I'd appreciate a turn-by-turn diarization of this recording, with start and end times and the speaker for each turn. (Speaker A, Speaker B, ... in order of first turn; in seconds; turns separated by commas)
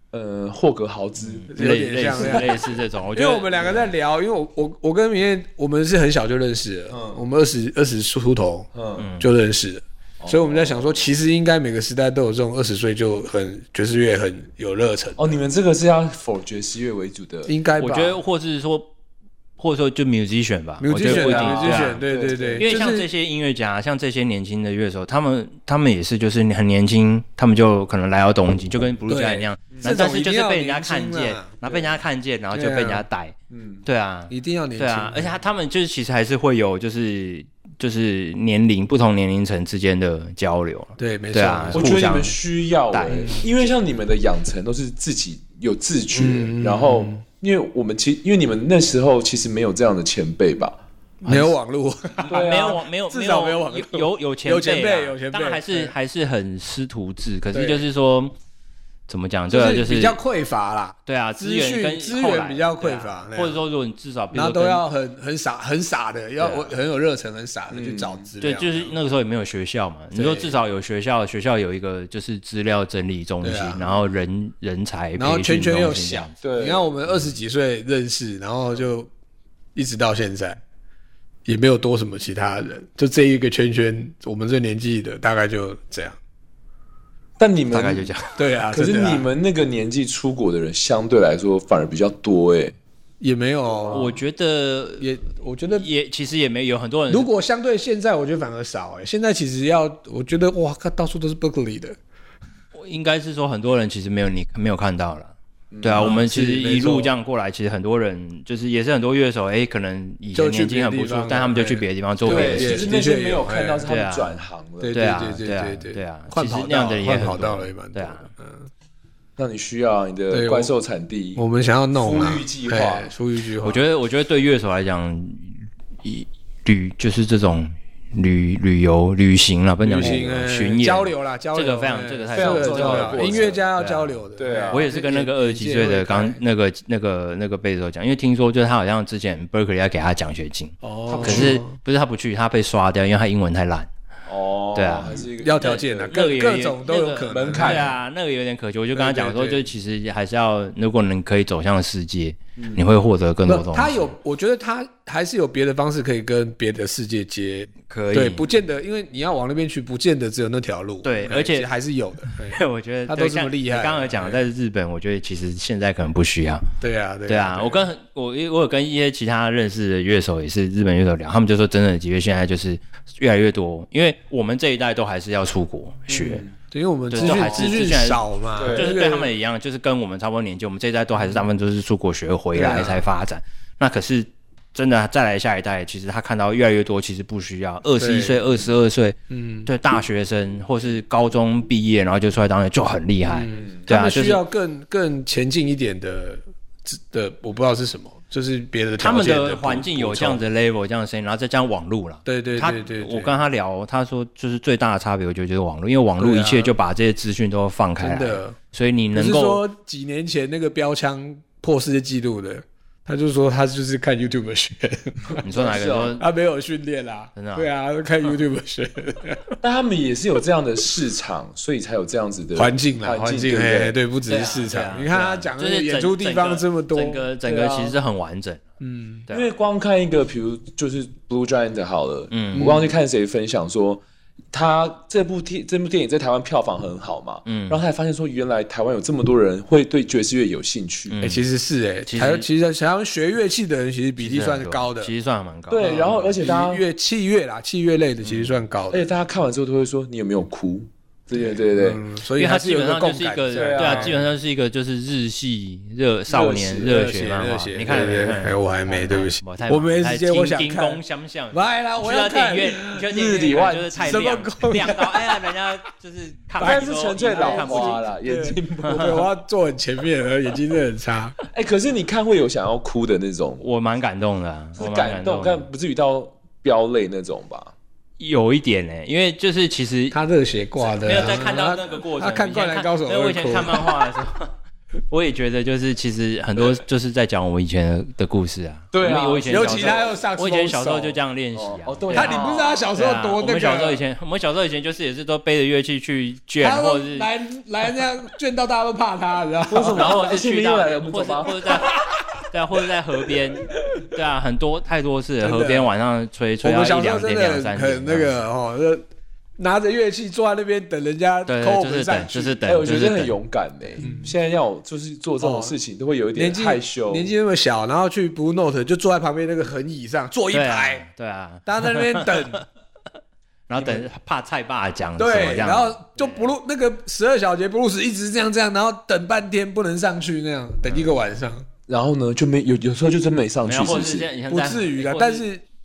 Speaker A: 0.1-1.5, Speaker B: 1.2-3.9, Speaker C: 1.5-2.6, Speaker A: 2.2-2.5, Speaker C: 3.1-15.4, Speaker A: 6.9-7.2, Speaker A: 8.7-9.1, Speaker B: 9.0-9.3, Speaker A: 10.2-11.1, Speaker A: 15.2-17.5, Speaker C: 17.4-18.2, Speaker B: 17.8-18.9, Speaker B: 19.6-22.0, Speaker C: 20.8-23.1, Speaker A: 21.0-22.7, Speaker B: 22.6-42.4, Speaker C: 29.1-31.6, Speaker A: 29.7-30.0, Speaker C: 32.5-33.0, Speaker A: 33.5-33.8, Speaker C: 34.3-35.4, Speaker C: 41.0-42.0, Speaker A: 41.7-51.5, Speaker B: 42.9-43.3, Speaker C: 43.1-43.4, Speaker C: 46.1-47.2, Speaker C: 51.2-55.9, Speaker A: 52.2-52.8, Speaker B: 52.3-58.3, Speaker C: 57.5-57.9, Speaker B: 59.1-60.2, Speaker C: 59.5-63.6, Speaker B: 61.0-64.8, Speaker C: 64.3-68.9, Speaker B: 66.4-66.7, Speaker A: 67.7-68.3, Speaker B: 68.4-76.4, Speaker C: 70.1-70.5, Speaker C: 73.4-74.0, Speaker C: 75.2-79.1, Speaker A: 76.4-76.9, Speaker C: 79.8-80.6, Speaker C: 81.5-86.2, Speaker A: 87.4-88.1, Speaker B: 87.7-88.4, Speaker C: 88.4-89.3, Speaker A: 88.7-92.7, Speaker C: 93.2-94.2, Speaker A: 93.8-94.1, Speaker B: 93.9-95.1, Speaker C: 95.0-95.9, Speaker B: 95.8-97.3, Speaker C: 97.1-102.0, Speaker B: 102.7-112.9, Speaker A: 105.7-106.1, Speaker C: 106.0-107.1, Speaker C: 110.3-113.9, Speaker A: 112.2-115.0, Speaker B: 113.8-118.3, Speaker C: 114.8-118.7, Speaker A: 119.4-123.1, Speaker C: 120.3-120.7, Speaker C: 121.4-123.8, Speaker B: 123.6-143.9, Speaker C: 129.8-136.4, Speaker A: 129.9-130.2, Speaker A: 132.3-133.7, Speaker A: 134.4-134.9, Speaker C: 140.8-141.8, Speaker A: 141.1-141.6, Speaker A: 144.3-146.2, Speaker B: 144.7-154.1, Speaker C: 145.1-147.9, Speaker A: 147.3-147.9, Speaker C: 148.9-149.6, Speaker A: 152.6-152.8, Speaker C: 153.4-164.4, Speaker B: 157.9-158.4, Speaker B: 161.0-161.7, Speaker B: 162.4-166.6, Speaker C: 166.8-167.9, Speaker B: 167.3-176.4, Speaker A: 176.1-176.5, Speaker C: 176.7-179.3, Speaker B: 177.1-194.4, Speaker A: 177.2-177.8, Speaker A: 178.6-179.0, Speaker C: 181.1-181.4, Speaker C: 182.5-183.1, Speaker C: 188.0-188.6, Speaker C: 189.3-189.7, Speaker C: 193.3-200.4, Speaker B: 199.0-209.6, Speaker C: 202.2-203.4, Speaker C: 206.2-206.7, Speaker C: 208.0-208.6, Speaker C: 209.1-219.6, Speaker B: 215.4-216.2, Speaker A: 215.5-216.2, Speaker B: 217.3-217.7, Speaker A: 219.6-224.0, Speaker C: 222.5-227.3, Speaker B: 224.3-228.6, Speaker A: 227.4-228.0, Speaker C: 228.8-229.3, Speaker A: 229.3-241.3, Speaker B: 232.3-232.8, Speaker C: 232.6-232.8, Speaker B: 237.4-237.8, Speaker B: 241.1-241.4, Speaker C: 241.2-245.1, Speaker B: 242.1-242.5, Speaker B: 244.2-246.3, Speaker A: 245.7-246.8, Speaker C: 245.8-249.1, Speaker A: 248.9-252.0, Speaker C: 251.3-254.2, Speaker B: 252.4-268.1, Speaker A: 253.5-254.2, Speaker A: 256.3-257.1, Speaker C: 256.8-261.0, Speaker A: 257.9-258.3, Speaker C: 261.5-263.1, Speaker A: 263.1-264.3, Speaker C: 264.0-265.4, Speaker C: 266.6-271.4, Speaker A: 266.6-269.2, Speaker B: 268.8-269.1, Speaker A: 271.5-273.6, Speaker B: 273.6-275.7, Speaker A: 274.8-277.7, Speaker B: 278.2-280.2, Speaker C: 280.1-284.0, Speaker A: 280.9-281.6, Speaker B: 281.0-284.5, Speaker B: 285.1-297.3, Speaker A: 288.9-290.2, Speaker C: 289.5-291.2, Speaker A: 291.5-292.9, Speaker C: 292.1-294.0, Speaker C: 296.6-300.2, Speaker A: 299.7-301.6, Speaker B: 299.9-302.0, Speaker C: 301.6-302.2, Speaker B: 302.5-308.4, Speaker C: 305.4-305.9, Speaker C: 306.6-309.0, Speaker C: 309.6-312.6, Speaker B: 311.5-313.4, Speaker A: 312.6-317.3, Speaker C: 314.0-314.4, Speaker C: 315.4-315.8, Speaker C: 316.3-321.0, Speaker B: 320.5-322.6, Speaker C: 321.6-322.6, Speaker B: 323.7-326.6, Speaker C: 325.2-331.7, Speaker B: 330.9-331.2, Speaker A: 331.9-334.3, Speaker B: 333.6-335.4, Speaker C: 334.5-335.6